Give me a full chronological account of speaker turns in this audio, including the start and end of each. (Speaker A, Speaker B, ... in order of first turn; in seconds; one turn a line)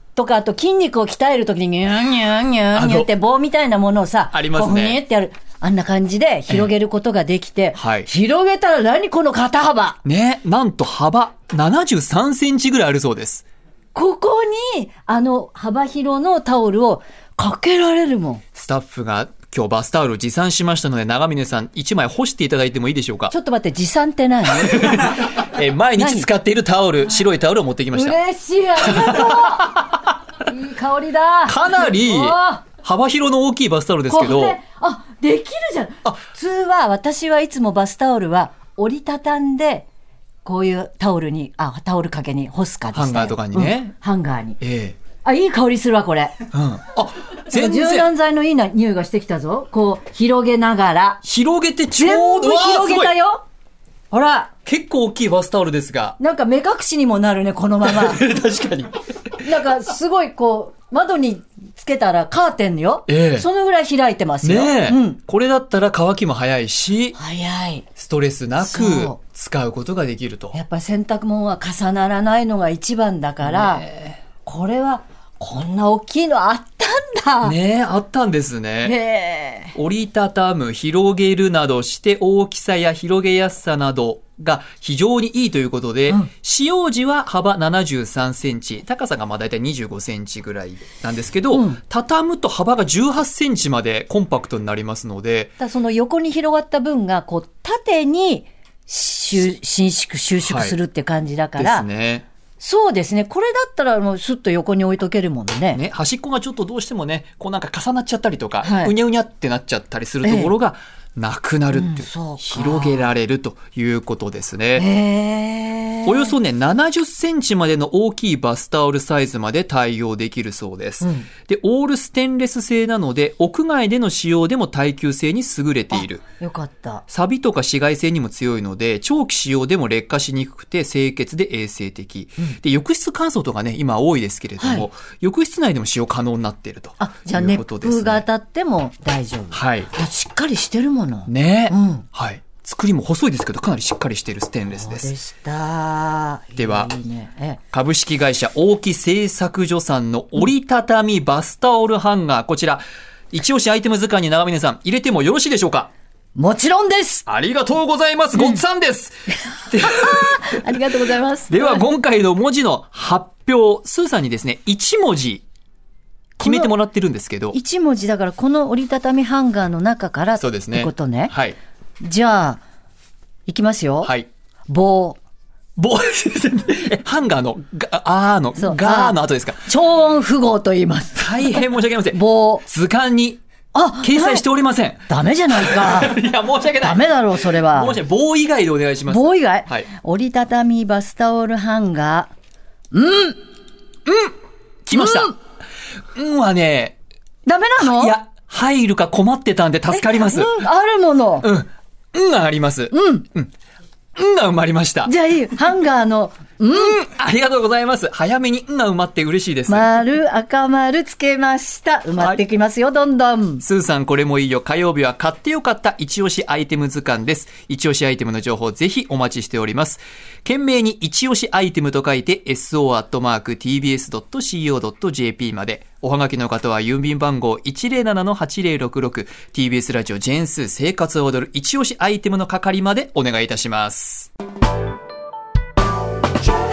Speaker A: 0.1-10.0
Speaker B: 2.7-3.1
Speaker B: 4.3-5.0
Speaker B: 7.8-8.1
Speaker B: 10.0-13.4
Speaker A: 13.9-18.4
Speaker B: 18.5-23.3
Speaker A: 23.3-25.3
Speaker B: 24.6-28.2
Speaker A: 26.0-26.3
Speaker A: 27.9-29.8
Speaker B: 28.8-29.8
Speaker A: 30.4-32.6
Speaker B: 31.5-34.6
Speaker A: 34.1-39.9
Speaker A: 40.4-44.6
Speaker B: 42.9-43.9
Speaker B: 44.6-45.0
Speaker A: 45.2-46.4
Speaker B: 46.5-48.1
Speaker A: 47.5-51.2
Speaker B: 51.2-53.1
Speaker A: 52.0-53.4
Speaker A: 54.1-54.5
Speaker B: 54.6-56.2
Speaker A: 56.2-58.2
Speaker B: 57.8-59.0
Speaker A: 59.4-65.2
Speaker B: 63.1-63.5
Speaker B: 64.4-67.2
Speaker A: 67.2-67.8
Speaker B: 68.0-70.6
Speaker A: 68.6-69.2
Speaker A: 70.5-73.8
Speaker B: 73.4-74.2
Speaker A: 74.4-77.5
Speaker B: 77.4-78.9
Speaker A: 78.8-79.7
Speaker B: 79.7-95.5
Speaker A: 91.5-91.8
Speaker A: 95.6-101.8
Speaker B: 100.4-100.8
Speaker B: 101.6-102.2
Speaker A: 102.6-105.8
Speaker B: 105.7-114.8
Speaker A: 108.6-108.9
Speaker A: 110.2-110.5
Speaker A: 111.7-113.1
Speaker A: 114.8-116.3
Speaker B: 116.0-126.2
Speaker A: 121.0-121.3
Speaker A: 125.9-127.0
Speaker B: 127.1-138.2
Speaker A: 134.6-134.9
Speaker A: 137.0-142.1
Speaker B: 139.5-139.9
Speaker B: 141.3-145.1
Speaker A: 144.7-147.6
Speaker B: 146.6-146.9
Speaker B: 147.7-155.9
Speaker A: 156.3-157.2
Speaker B: 157.3-159.1
Speaker A: 158.3-158.6
Speaker A: 159.5-161.9
Speaker B: 159.7-160.6
Speaker B: 161.5-165.4
Speaker B: 166.4-167.6
Speaker A: 166.4-166.7
Speaker A: 167.5-171.3
Speaker B: 170.4-171.6
Speaker A: 172.0-172.6
Speaker A: 173.4-174.1
Speaker B: 174.0-174.3
Speaker A: 174.7-175.2
Speaker B: 175.8-179.6
Speaker A: 178.6-182.6
Speaker B: 181.2-183.4
Speaker A: 183.7-184.4
Speaker B: 184.0-189.8
Speaker A: 185.1-186.2
Speaker A: 186.8-188.0
Speaker A: 189.1-192.3
Speaker A: 192.9-193.4
Speaker B: 194.1-194.3
Speaker B: 194.8-195.4
Speaker A: 194.9-195.3
Speaker B: 196.1-196.9
Speaker A: 197.4-198.2
Speaker B: 197.8-200.5
Speaker A: 199.9-201.5
Speaker B: 201.4-203.5
Speaker A: 202.9-203.2
Speaker B: 204.2-205.1
Speaker A: 205.0-206.9
Speaker B: 206.7-209.9
Speaker A: 209.7-213.6
Speaker B: 213.6-234.3